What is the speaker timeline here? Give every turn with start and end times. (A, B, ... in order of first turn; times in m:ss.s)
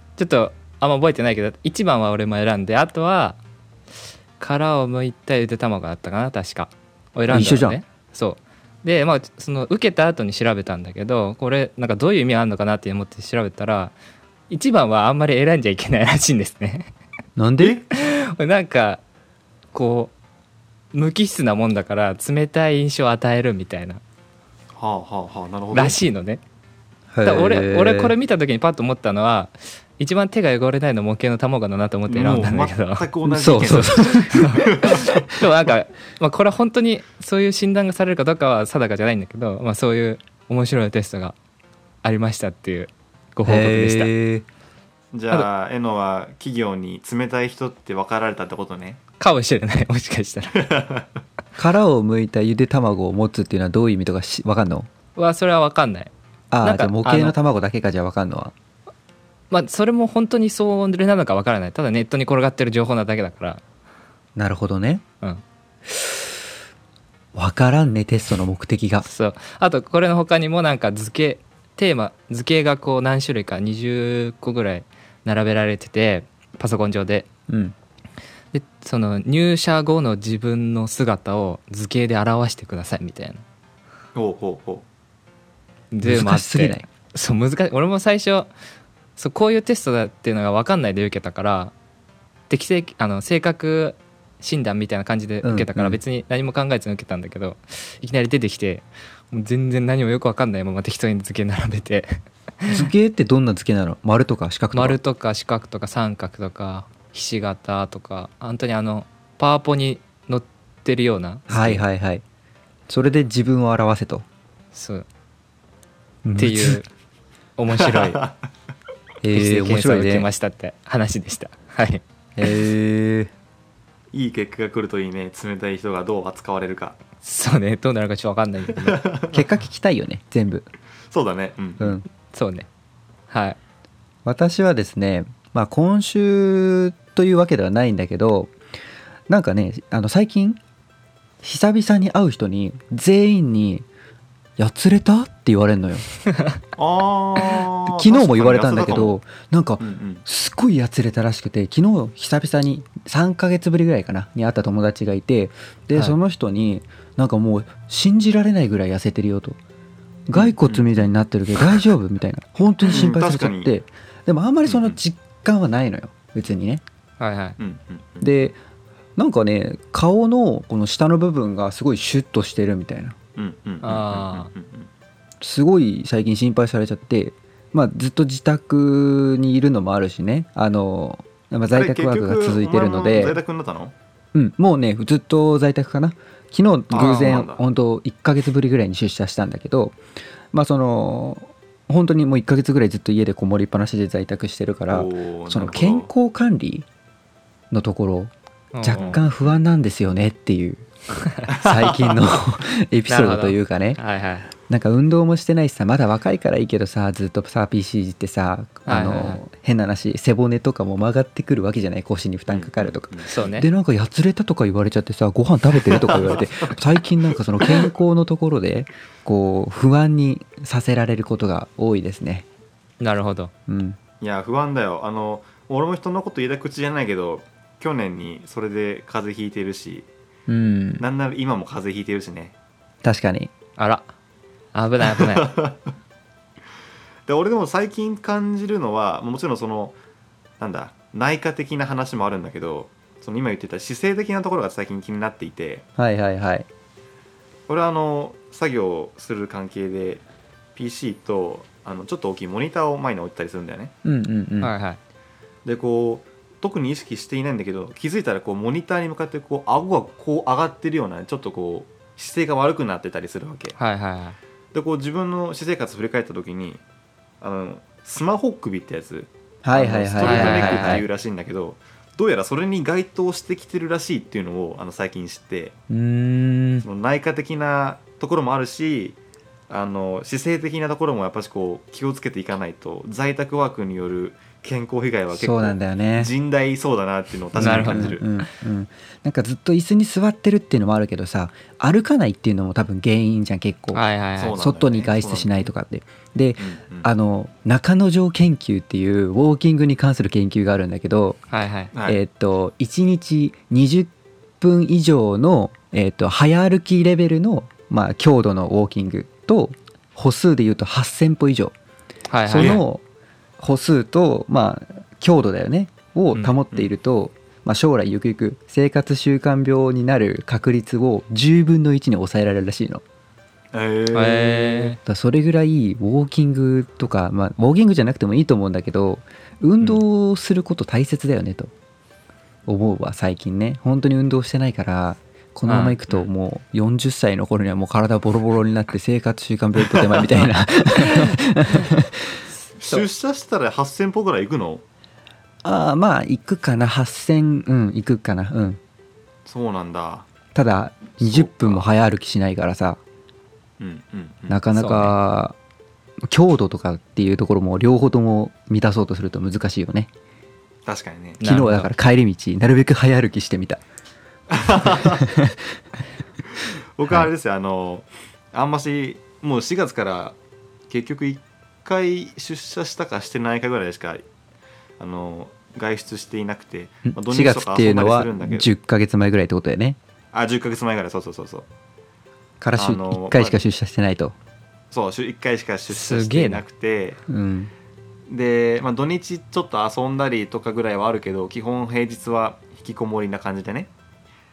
0:00.2-0:03.4 A
0:04.4-0:13.9 A
0:07.3-0:07.8 B
0:14.5-0:16.9 A
0:17.4-0:17.8 B
0:17.9-0:19.0 A
0:19.7-0:20.1 A
0:20.9-0:24.0 A
0:24.7-0:26.0 C
0:25.7-0:26.4 A
0:27.1-0:28.2 B
0:27.2-0:33.1 A
0:32.1-0:35.1 C
0:33.2-0:34.3 B
0:33.7-0:41.4 A
0:42.0-0:44.1 A
0:43.4-0:44.5 B
0:45.1-0:49.0 C
0:49.2-0:50.7 A
0:50.6-0:51.0 C
0:51.6-0:54.9 B
0:55.2-0:56.1 A
0:56.5-0:58.5 B
0:56.6-0:57.4 A
0:59.5-1:03.6 A
1:04.4-1:05.0 B
1:05.9-1:06.2 B
1:07.4-1:09.1 B
1:09.0-1:17.3 A
1:17.5-1:17.8 B
1:18.5-1:23.4 A
1:24.2-1:24.8 C
1:25.9-1:28.5 A
1:26.0-1:26.8 B
1:29.2-1:31.7 A
1:32.5-1:42.1 A
1:35.4-1:36.0 B
1:42.7-1:45.0 B
1:44.7-1:51.8 A
1:51.5-1:52.2 B
1:52.9-1:54.2 B
1:54.7-1:55.1 A
1:56.2-1:56.8 B
1:56.4-1:56.9 A
1:57.6-1:58.2 A
1:57.7-1:58.4 C
1:59.2-2:00.3 B
1:59.3-2:02.0 A
2:02.4-2:03.3 B
2:04.1-2:07.0 C
2:07.2-2:09.0 A
2:08.8-2:09.4 C
2:09.3-2:10.7 B
2:11.1-2:11.9 C
2:11.8-2:12.0 B
2:12.3-2:12.7 A
2:13.3-2:13.6 A
2:14.2-2:18.5 B
2:19.3-2:20.6 B
2:21.4-2:23.9 B
2:24.6-2:26.1 B
2:26.8-2:29.2 C
2:27.9-2:39.6 B
2:29.8-2:30.2 C
2:40.3-2:46.8 B
2:40.3-2:41.1 C
2:42.9-2:43.8 C
2:44.6-2:45.0 C
2:47.2-2:47.6 A
2:47.6-2:48.3 C
2:48.2-2:48.6 B
2:49.2-2:53.2 B
2:53.4-2:54.9 C
2:53.8-2:54.5 A
2:55.4-3:03.4 B
3:01.7-3:03.9 C
3:04.3-3:10.0 B
3:06.9-3:07.6 C
3:10.5-3:16.9 B
3:14.9-3:16.1 C
3:17.7-3:20.9 B
3:18.7-3:19.2 A
3:21.5-3:24.0 B
3:21.6-3:22.2 C
3:23.1-3:24.5 A
3:24.7-3:42.5 B
3:28.9-3:29.4 A
3:32.5-3:33.3 C
3:33.3-3:33.7 A
3:35.7-3:36.5 C
3:37.6-3:37.9 C
3:43.0-3:43.5 A
3:43.7-3:44.0 B
3:44.2-3:50.1 C
3:50.5-3:51.0 B
3:51.0-3:52.5 C
3:53.0-3:53.5 B
3:53.8-3:54.1 A
3:54.7-3:55.5 A
3:55.2-3:55.8 C
3:57.3-4:00.0 C
4:00.6-4:05.8 C
4:06.0-4:06.7 B
4:07.7-4:10.2 C
4:10.8-4:13.9 C
4:14.0-4:14.7 B
4:14.6-4:15.0 A
4:15.6-4:23.8 C
4:23.8-4:24.4 A
4:24.7-4:26.8 C
4:27.4-4:35.8 C
4:29.6-4:31.0 B
4:30.2-4:31.0 A
4:35.9-4:36.9 B
4:36.8-4:39.2 C
4:39.7-4:48.2 C
4:45.3-4:46.3 B
4:47.6-5:01.4 B
4:47.6-4:48.2 A
4:53.9-4:54.6 A
4:54.4-4:55.7 C
4:56.6-4:57.1 C
5:01.5-5:01.9 A
5:01.9-5:02.2 C
5:02.1-5:04.1 B
5:04.6-5:11.7 B
5:12.3-5:12.8 A
5:12.5-5:13.0 B
5:13.6-5:23.0 B
5:23.7-5:25.0 C
5:24.1-5:25.0 A
5:25.1-5:31.7 B
5:32.7-5:42.4 B
5:35.7-5:36.0 A
5:39.8-5:40.3 C
5:41.0-5:41.9 A
5:42.5-5:43.1 A
5:42.8-5:44.8 C
5:45.6-5:48.8 B
5:49.4-5:50.3 C
5:50.5-5:53.0 B
5:51.2-5:51.8 C
5:53.8-5:54.6 C
5:54.5-5:55.6 B
5:54.7-5:55.2 A
5:56.3-6:00.1 B
6:00.9-6:01.4 C
6:01.4-6:01.9 A
6:01.4-6:03.8 B
6:04.5-6:05.2 C
6:05.0-6:05.6 B
6:07.0-6:10.4 C
6:10.9-6:14.2 C
6:15.0-6:18.7 C
6:17.0-6:20.0 B
6:20.3-6:21.7 C
6:22.6-6:24.4 B
6:22.7-6:23.6 C
6:24.9-6:27.2 C
6:25.9-6:26.6 A
6:27.3-6:27.7 B
6:28.3-6:33.9 C